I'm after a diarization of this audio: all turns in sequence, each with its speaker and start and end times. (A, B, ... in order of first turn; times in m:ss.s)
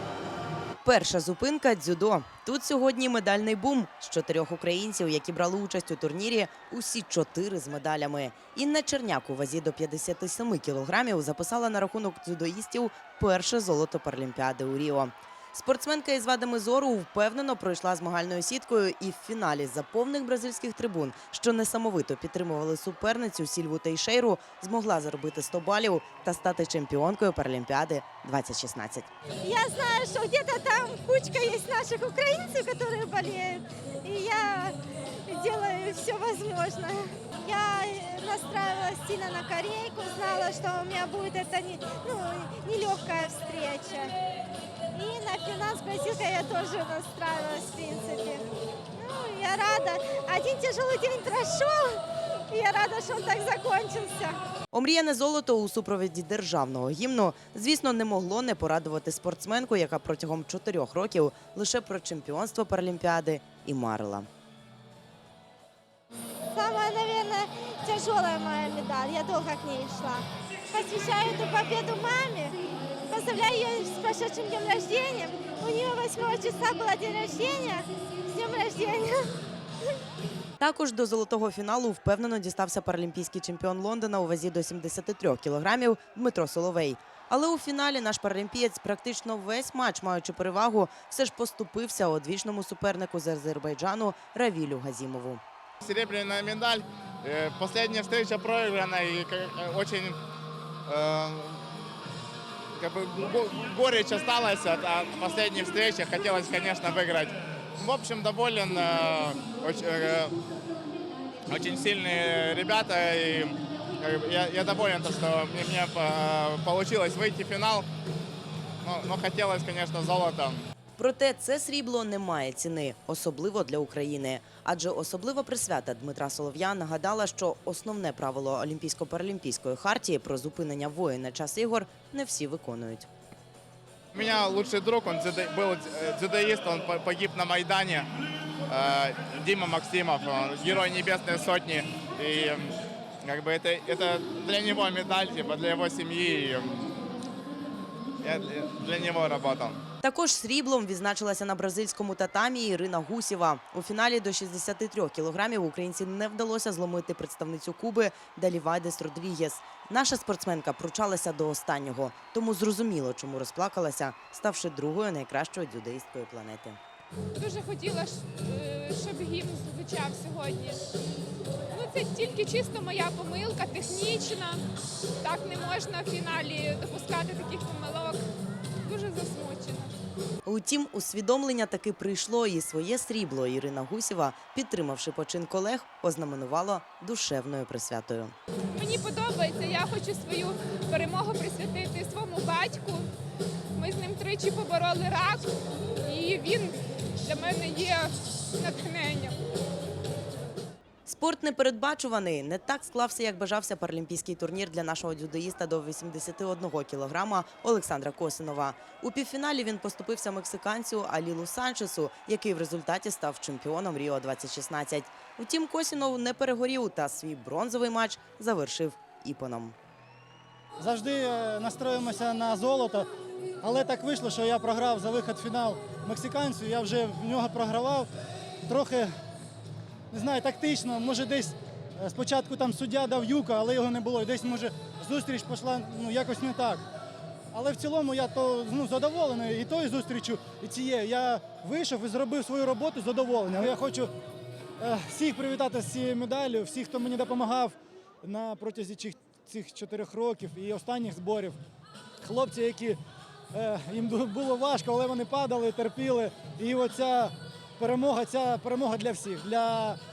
0:00.8-0:29.1 A
0:29.4-0:44.1 B
0:44.9-0:54.4 B
0:54.7-1:04.3 A
1:06.5-1:12.6 B
1:13.1-1:19.3 B
1:20.6-1:35.4 A
1:35.8-1:40.2 C
1:40.9-1:41.6 C
1:42.8-1:50.4 C
1:51.5-1:57.9 C
1:58.8-2:00.6 C
2:01.0-2:13.1 A
2:14.2-2:18.1 C
2:18.7-2:26.8 C
2:28.2-2:29.8 C
2:30.0-2:46.8 A
2:47.4-2:50.8 D
2:51.7-2:54.7 D
2:55.2-2:58.3 D
2:58.8-3:00.0 D
3:00.4-3:08.4 A
3:08.7-3:13.1 D
3:13.8-3:19.4 D
3:21.1-3:39.8 A
3:40.8-3:43.1 E
3:43.6-3:48.1 E
3:48.7-3:49.1 E
3:50.1-3:56.8 E
3:57.5-4:04.1 E
4:04.8-4:11.6 E
4:12.2-4:13.0 E
4:13.5-4:20.0 E